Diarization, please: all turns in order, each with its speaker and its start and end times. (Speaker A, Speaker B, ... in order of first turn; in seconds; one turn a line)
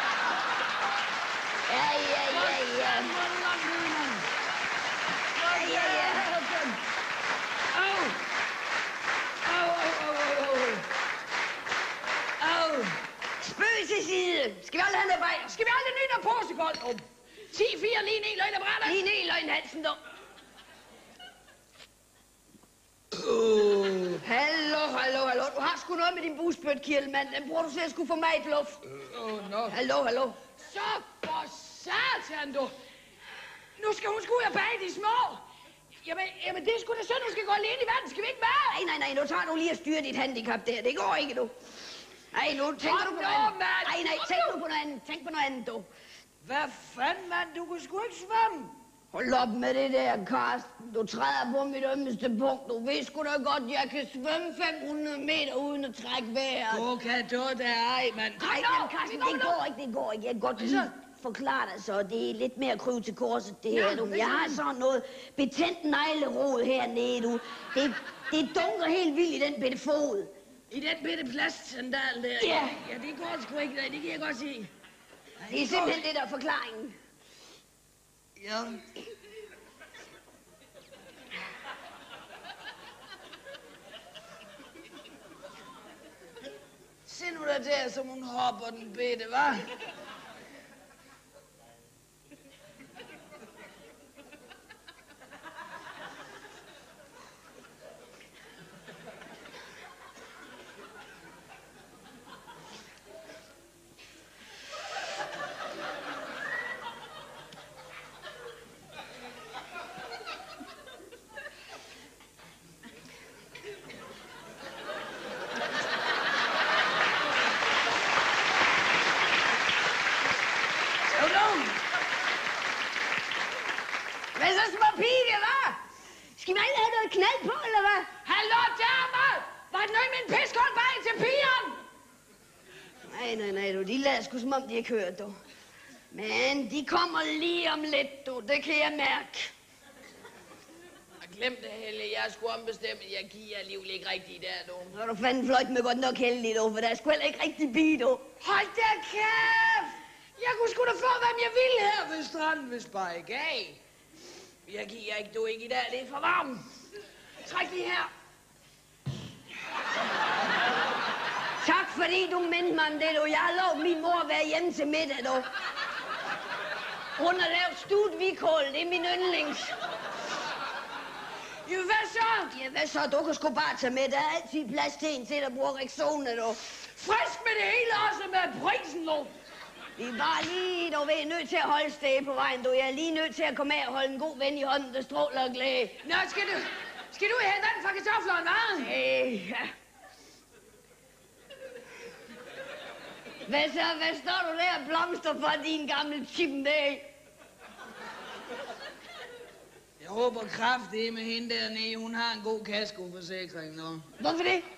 Speaker A: 1.7-3.1
Speaker B: 2.3-4.3
Speaker B: 5.3-6.8
Speaker A: 5.5-6.3
Speaker B: 7.7-8.2
Speaker B: 9.4-10.9
Speaker B: 12.4-13.0
Speaker A: 13.4-15.5
Speaker B: 15.5-19.0
Speaker A: 18.8-20.0
Speaker B: 23.1-24.2
Speaker A: 24.2-28.8
Speaker B: 28.9-29.8
Speaker A: 29.7-30.4
Speaker B: 30.6-32.7
Speaker B: 33.8-35.4
Speaker B: 36.0-38.8
Speaker A: 38.7-41.5
Speaker A: 42.3-45.9
Speaker B: 42.8-44.6
Speaker B: 46.4-48.7
Speaker A: 49.1-56.9
Speaker B: 56.7-59.6
Speaker A: 58.4-70.3
Speaker B: 60.6-60.9
Speaker B: 63.7-64.6
Speaker B: 70.7-74.7
Speaker A: 72.4-72.8
Speaker B: 75.4-76.0
Speaker A: 75.5-77.0
Speaker B: 78.4-78.8
Speaker B: 87.1-89.7
Speaker B: 121.1-121.8
Speaker A: 124.3-125.8
Speaker A: 126.4-128.1
Speaker B: 128.2-131.8
Speaker A: 133.1-135.4
Speaker A: 136.1-139.5
Speaker B: 141.2-144.9
Speaker A: 144.9-148.2
Speaker B: 148.4-153.8
Speaker B: 154.7-156.6
Speaker B: 157.4-158.1
Speaker A: 161.6-165.5
Speaker A: 167.2-169.7
Speaker B: 171.7-172.5
Speaker A: 172.5-176.6
Speaker B: 177.0-179.3
Speaker A: 180.0-186.0
Speaker B: 186.0-188.9
Speaker A: 188.8-189.7
Speaker A: 193.5-197.1
Speaker B: 200.0-204.1
Speaker A: 204.2-204.7